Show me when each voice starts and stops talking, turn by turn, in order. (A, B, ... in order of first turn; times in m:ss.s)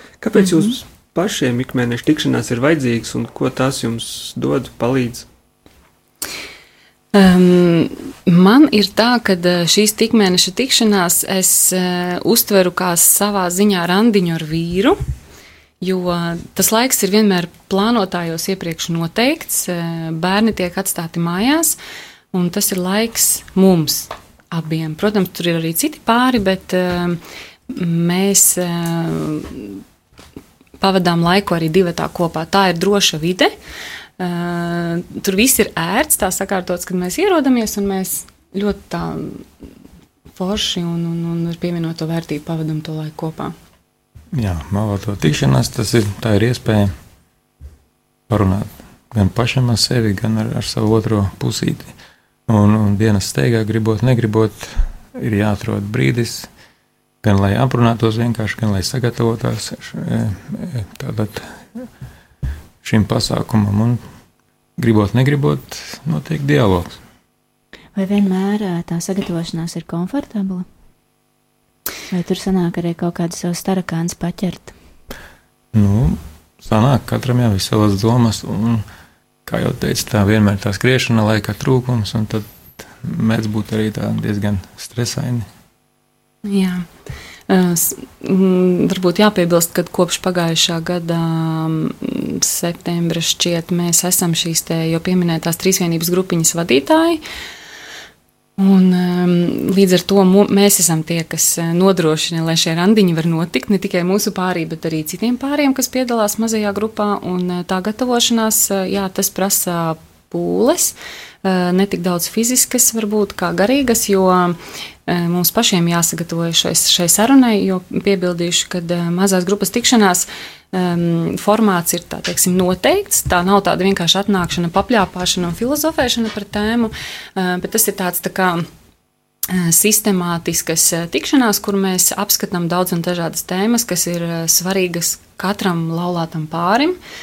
0:00.2-0:05.3 A
0:07.1-0:15.0 B
0:15.8-0:21.8 B
0:22.3-0:29.8 B
0:30.8-0:33.5 B
0:34.2-0:39.5 B
0:40.3-0:43.5 B
0:44.3-0:46.9 C
0:48.3-0:51.9 C
0:52.5-0:56.5 C
0:57.2-1:01.8 C
1:02.8-1:04.0 C
1:04.8-1:07.0 C
1:07.9-1:10.6 D
1:12.1-1:14.7 D
1:15.7-1:18.8 C
1:19.4-1:25.5 C
1:26.4-1:26.9 B
1:27.5-1:37.2 B
1:38.6-2:08.6 B
2:09.5-2:17.0 B